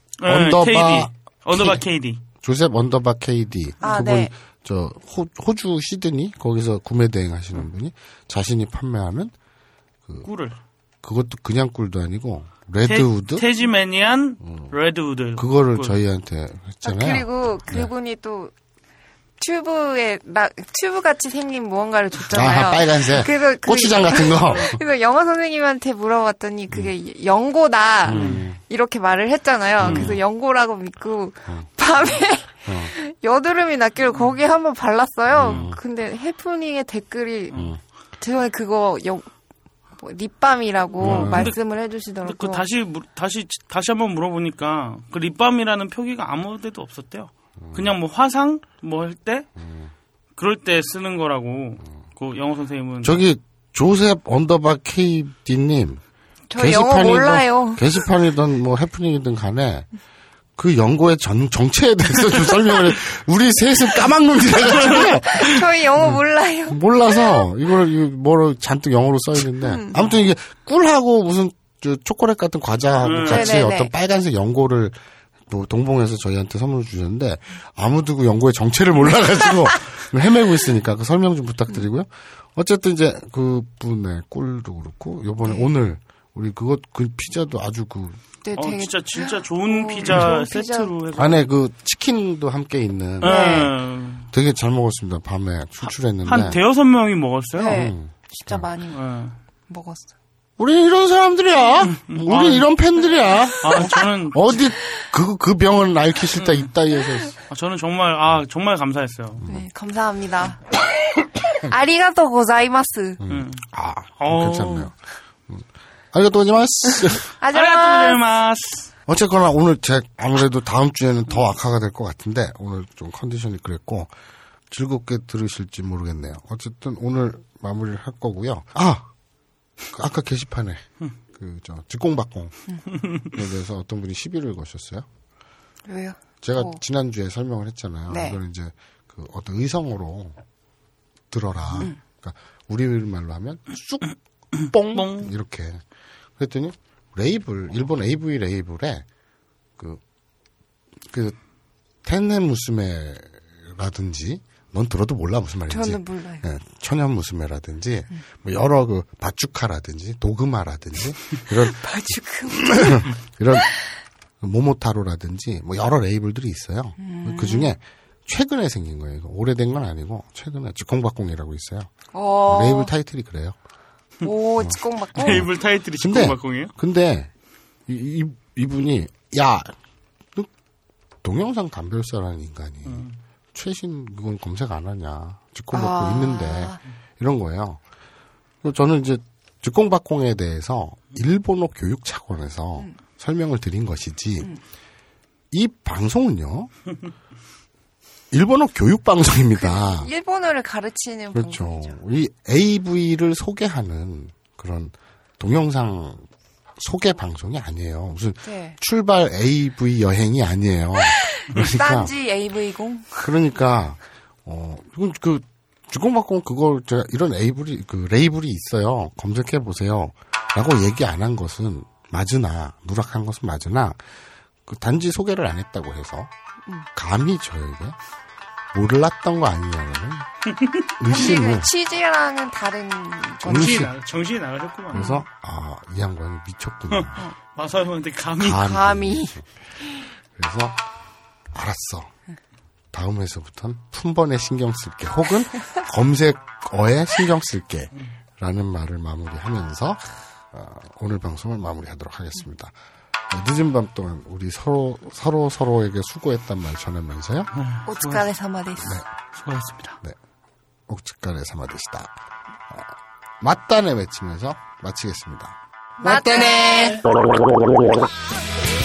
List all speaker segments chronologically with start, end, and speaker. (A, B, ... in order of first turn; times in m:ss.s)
0:00.2-0:02.2 A
0:00.2-0:01.8 B
0:02.4-0:09.3 B
0:03.8-0:04.3 C
0:10.2-0:10.6 A
0:11.0-0:13.4 B
0:12.8-0:16.0 A
0:14.4-0:14.7 B
0:15.4-0:17.9 B
0:16.8-0:18.5 C
0:19.4-0:37.6 C
0:22.3-0:24.8 B
0:28.0-0:28.6 B
0:28.1-0:28.4 A
0:29.8-0:30.2 B
0:29.8-0:30.2 A
0:35.3-0:35.8 B
0:37.5-0:37.8 B
0:38.2-0:39.3 C
0:40.0-0:42.6 C
0:41.0-0:41.5 B
0:41.0-0:41.6 A
0:42.2-0:49.5 A
0:47.6-0:47.9 B
0:49.6-0:49.9 B
0:50.4-0:53.2 A
0:53.0-0:56.0 B
0:56.5-0:57.8 C
0:56.6-0:59.9 B
1:00.6-1:15.0 B
1:04.9-1:07.4 C
1:09.6-1:10.0 C
1:13.0-1:13.5 A
1:13.3-1:13.9 C
1:15.5-1:28.2 B
1:25.4-1:25.7 C
1:28.4-1:30.9 C
1:28.6-1:31.5 A
1:31.1-1:33.7 B
1:33.2-1:34.3 A
1:33.2-1:33.7 C
1:34.3-1:36.6 B
1:36.2-1:37.9 A
1:37.6-1:39.0 C
1:37.6-1:38.6 B
1:38.9-1:39.4 A
1:39.7-1:40.1 C
1:40.6-1:47.4 B
1:41.8-1:42.6 A
1:43.6-1:44.6 A
1:47.5-1:49.4 A
1:49.4-1:50.7 C
1:51.6-1:53.2 C
1:53.2-1:54.9 B
1:53.3-1:53.6 A
1:54.2-1:54.9 A
1:55.5-1:57.2 B
1:57.4-1:58.2 C
1:57.5-1:58.9 A
1:59.1-2:04.1 B
2:04.7-2:09.1 B
2:09.9-2:12.5 B
2:13.2-2:15.0 B
2:15.8-2:16.8 C
2:16.4-2:20.4 B
2:18.1-2:18.4 C
2:21.3-2:25.8 B
2:24.9-2:25.3 A
2:26.4-2:29.0 B
2:31.1-2:31.4 B
2:32.0-2:43.7 B
2:35.7-2:36.4 C
2:41.8-2:43.0 C
2:44.4-2:51.9 B
2:47.0-2:47.7 C
2:52.1-2:52.9 C
2:52.4-2:53.6 B
2:54.2-2:55.4 C
2:54.6-2:57.3 B
2:55.2-2:56.7 A
2:57.9-2:59.7 B
3:01.2-3:07.8 B
3:02.9-3:03.2 A
3:05.7-3:06.8 C
3:08.6-3:14.5 B
3:15.5-3:16.7 B
3:18.3-3:20.1 B
3:19.6-3:22.0 C
3:21.3-3:26.2 B
3:26.8-3:32.1 B
3:28.4-3:28.8 C
3:31.1-3:33.3 C
3:33.2-3:44.0 B
3:44.6-3:46.3 B
3:46.9-3:48.0 B
3:48.7-3:50.3 B
3:51.0-3:51.7 B
3:51.0-3:53.8 C
3:53.4-3:53.9 B
3:53.5-3:55.0 A
3:54.9-3:57.2 B
3:54.9-3:55.2 C
3:56.9-3:58.7 A
3:58.4-3:59.4 B
3:58.6-3:59.4 C
4:00.3-4:00.8 B
4:01.5-4:02.1 B
4:02.9-4:12.7 B
4:13.3-4:17.5 B
4:17.6-4:18.3 A
4:17.8-4:19.0 C
4:19.4-4:20.0 A
4:20.9-4:22.1 B
4:22.7-4:27.0 B
4:26.0-4:27.0 C